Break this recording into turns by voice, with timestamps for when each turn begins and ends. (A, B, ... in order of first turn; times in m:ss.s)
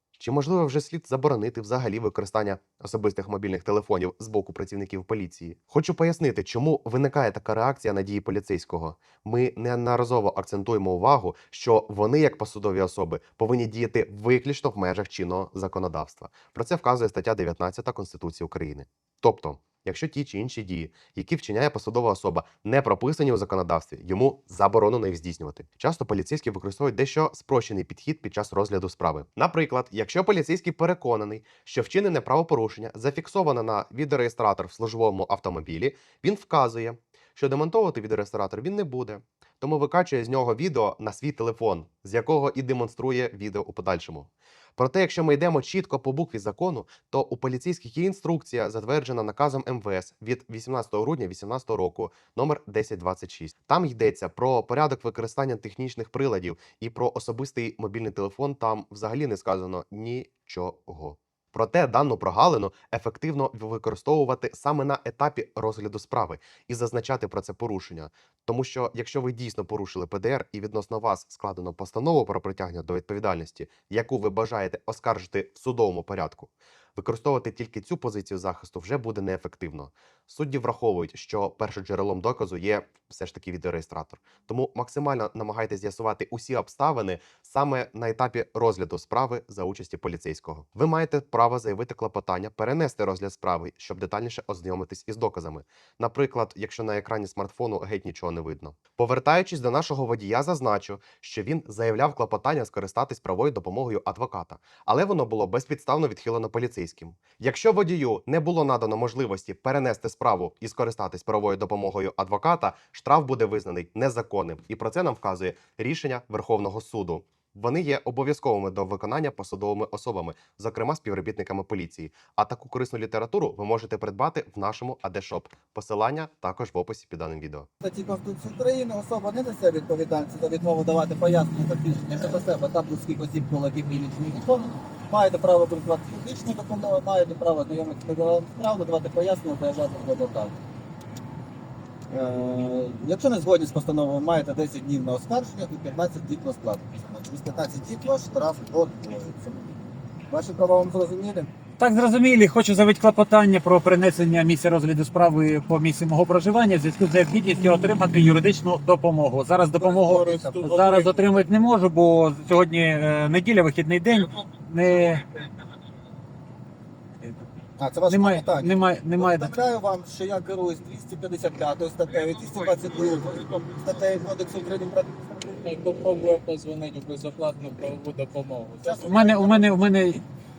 0:00.2-2:07.7 A
2:07.8-2:20.6 B
2:22.1-2:29.7 B
2:30.3-2:31.5 B
2:31.8-2:45.2 C
2:39.8-2:41.4 D
2:39.8-2:40.6 B
2:47.8-2:55.3 B
2:48.1-2:49.5 C
2:55.5-2:59.6 D
2:58.8-2:59.6 B
2:59.1-3:00.2 C